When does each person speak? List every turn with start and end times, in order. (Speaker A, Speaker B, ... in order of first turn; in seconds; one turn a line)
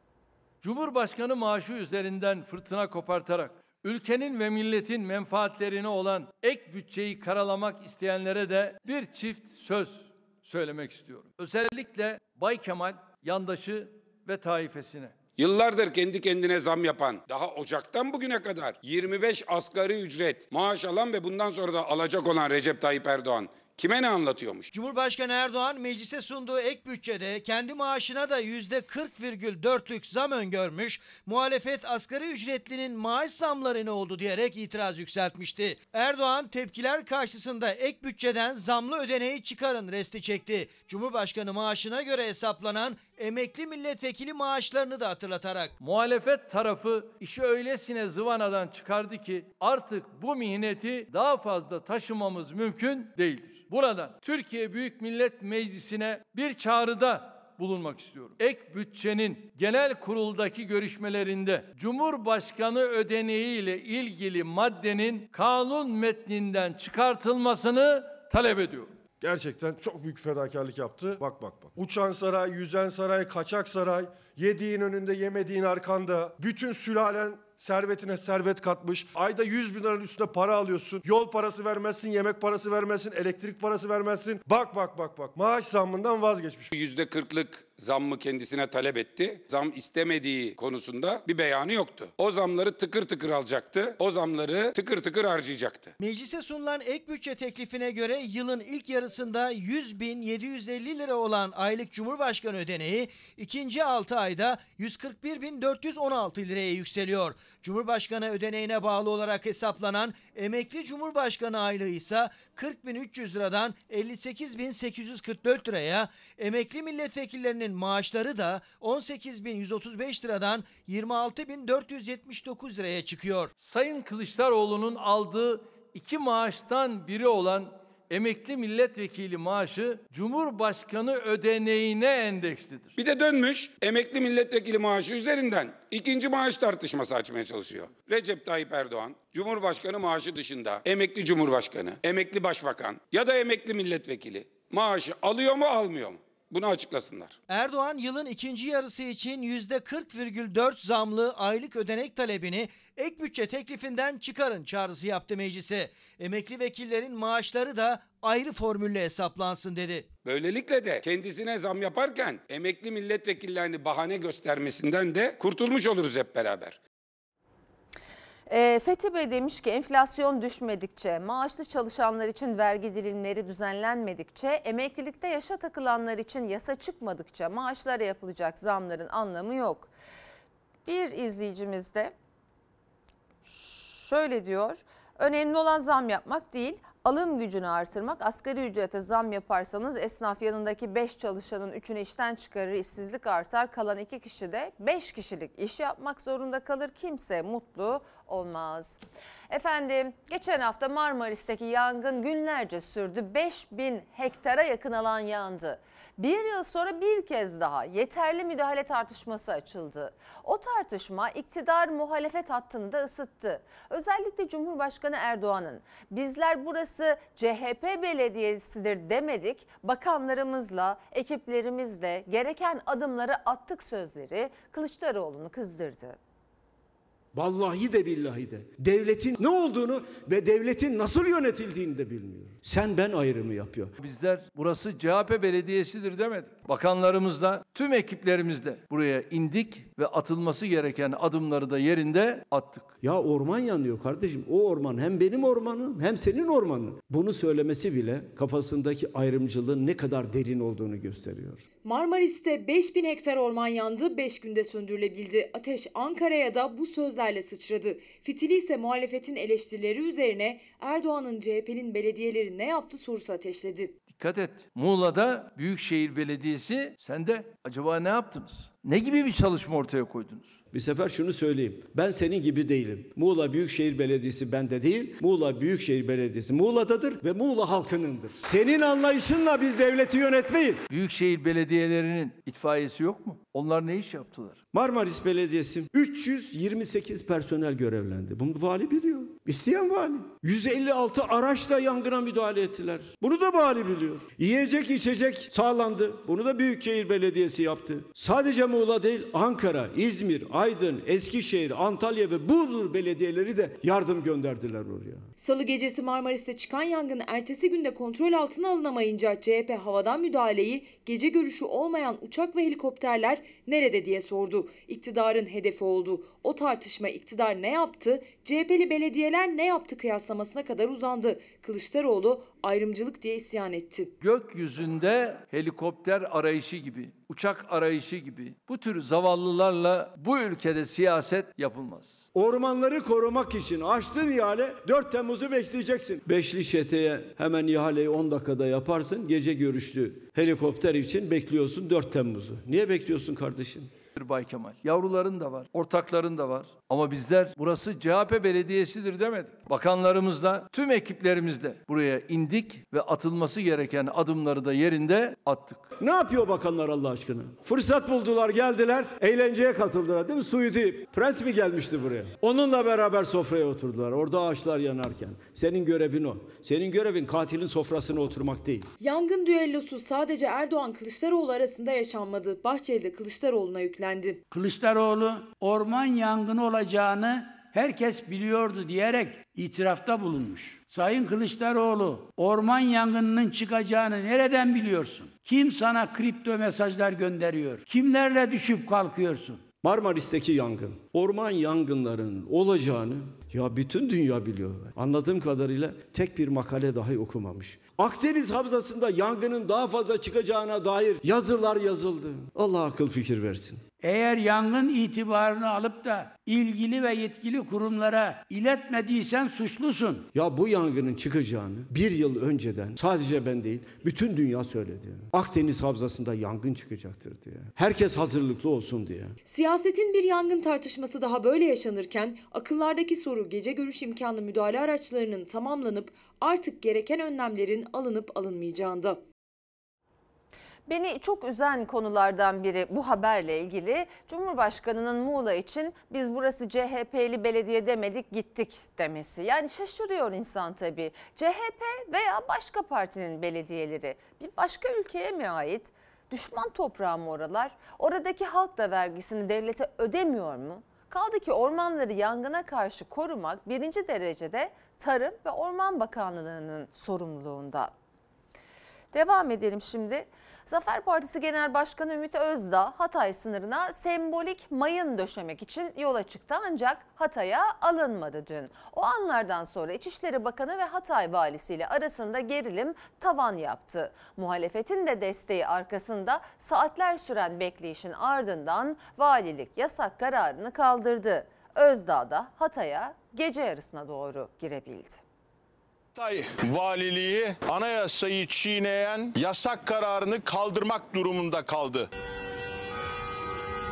Speaker A: 0.6-15.2
Speaker B: 15.4-24.7
Speaker C: 24.7-45.7
Speaker A: 45.8-68.9
Speaker D: 69.2-86.7
Speaker B: 86.7-95.9
Speaker C: 96.0-123.5
Speaker A: 123.6-132.9
Speaker B: 133.0-147.4
Speaker C: 147.5-160.1
Speaker B: 160.2-166.8
Speaker E: 168.5-179.9
Speaker E: 180.9-182.1
Speaker E: 183.4-226.2
Speaker F: 227.3-233.9
Speaker A: 234.0-242.9
Speaker F: 243.0-251.6
Speaker G: 251.8-263.9
Speaker A: 264.1-270.6
Speaker F: 270.7-280.9
Speaker A: 280.9-284.6
Speaker F: 284.7-305.3
Speaker G: 305.4-324.1
Speaker A: 324.2-332.2
Speaker F: 332.3-343.9
Speaker A: 344.2-355.9
Speaker F: 356.0-368.9
Speaker G: 369.0-374.4
Speaker H: 374.5-389.6
Speaker F: 389.8-403.9
Speaker H: 404.0-410.3
Speaker F: 410.3-419.4
Speaker G: 419.5-429.2
Speaker E: 430.9-457.9
Speaker E: 459.1-485.2
Speaker I: 486.2-492.0